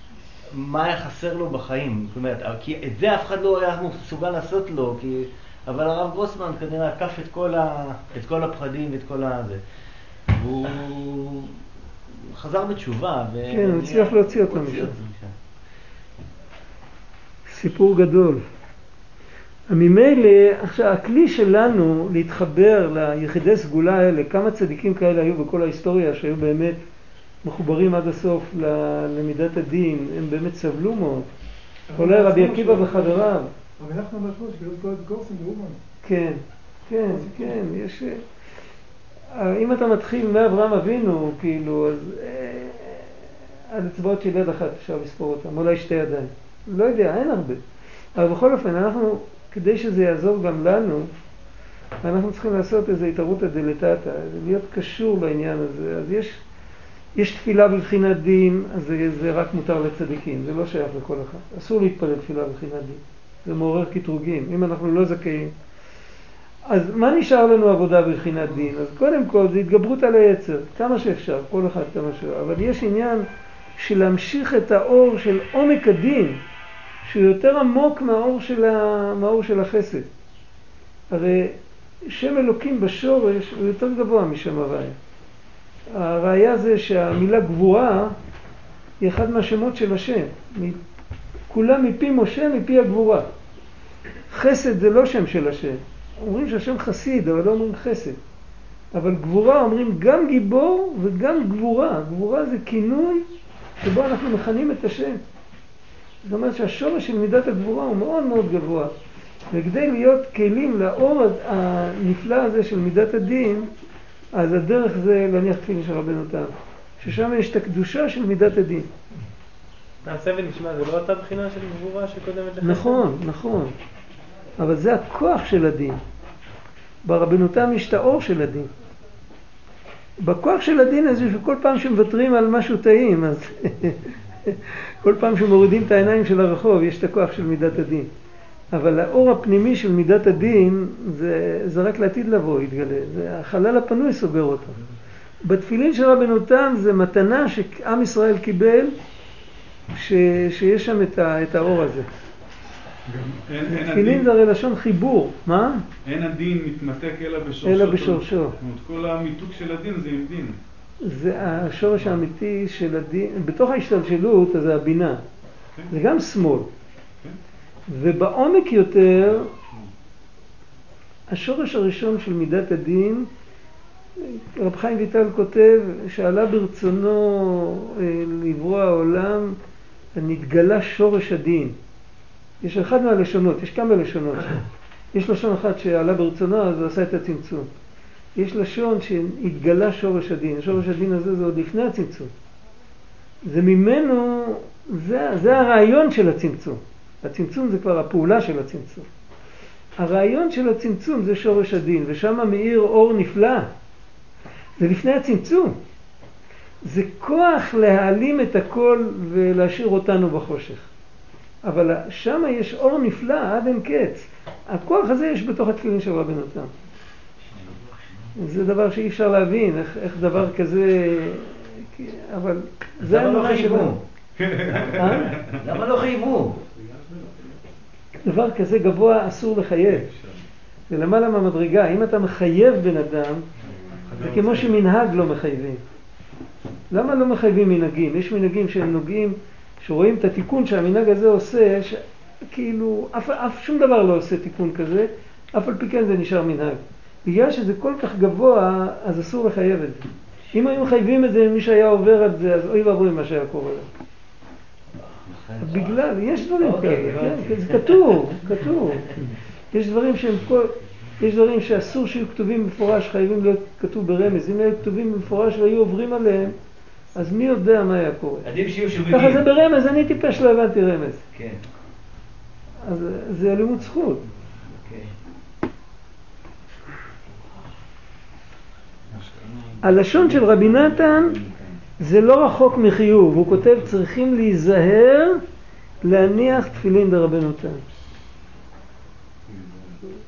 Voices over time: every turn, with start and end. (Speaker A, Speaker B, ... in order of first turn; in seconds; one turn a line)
Speaker A: 0.5-9.6
Speaker A: 10.3-11.6
Speaker A: 12.1-15.3
Speaker B: 13.5-14.9
Speaker B: 17.5-18.4
Speaker B: 19.7-26.8
Speaker B: 27.4-31.3
Speaker C: 31.9-33.3
Speaker B: 31.9-33.5
Speaker C: 33.8-35.8
Speaker B: 36.0-38.2
Speaker C: 37.1-37.6
Speaker B: 39.3-47.6
Speaker B: 48.1-51.1
Speaker B: 52.0-56.4
Speaker B: 57.2-65.5
Speaker B: 66.7-73.2
Speaker B: 73.8-76.4
Speaker B: 77.0-80.1
Speaker B: 81.1-81.6
Speaker B: 82.1-85.0
Speaker B: 85.9-88.2
Speaker B: 89.0-90.8
Speaker B: 91.5-93.3
Speaker B: 94.3-98.2
Speaker B: 98.9-103.3
Speaker B: 103.8-105.2
Speaker B: 106.2-108.9
Speaker B: 109.5-113.7
Speaker B: 114.3-118.9
Speaker D: 120.1-122.7
Speaker B: 122.6-123.7
Speaker B: 124.6-126.0
Speaker B: 127.0-128.7
Speaker B: 130.2-138.1
Speaker B: 138.7-144.8
Speaker B: 145.4-148.9
Speaker B: 149.9-152.1
Speaker E: 153.1-154.3
Speaker B: 153.7-155.8
Speaker E: 156.1-160.6
Speaker B: 157.6-158.6
Speaker B: 161.0-165.2
Speaker B: 165.9-166.7
Speaker B: 167.9-169.5
Speaker B: 171.3-173.3
Speaker B: 174.2-179.6
Speaker B: 180.2-181.8
Speaker B: 182.6-184.6
Speaker B: 185.1-187.7
Speaker B: 188.4-192.3
Speaker B: 193.4-199.1
Speaker B: 200.0-203.7
Speaker B: 204.8-205.8
Speaker B: 206.8-210.9
Speaker B: 211.6-216.7
Speaker B: 218.4-223.9
Speaker A: 223.0-224.0
Speaker E: 224.4-225.6
Speaker B: 224.9-225.4
Speaker A: 225.4-226.6
Speaker E: 226.8-227.5
Speaker B: 228.2-230.1
Speaker E: 230.1-230.4
Speaker B: 230.9-233.5
Speaker E: 233.9-234.8
Speaker B: 234.2-235.8
Speaker B: 236.9-253.9
Speaker A: 255.0-256.1
Speaker B: 255.6-259.1
Speaker A: 256.6-258.2
Speaker A: 258.8-259.2
Speaker B: 259.7-266.5
Speaker B: 267.1-271.2
Speaker A: 268.4-269.4
Speaker A: 271.3-271.6
Speaker B: 272.9-274.2
Speaker A: 274.7-275.1
Speaker E: 279.1-281.6
Speaker B: 279.8-281.4
Speaker B: 282.0-285.4
Speaker B: 286.0-287.8
Speaker E: 289.5-289.9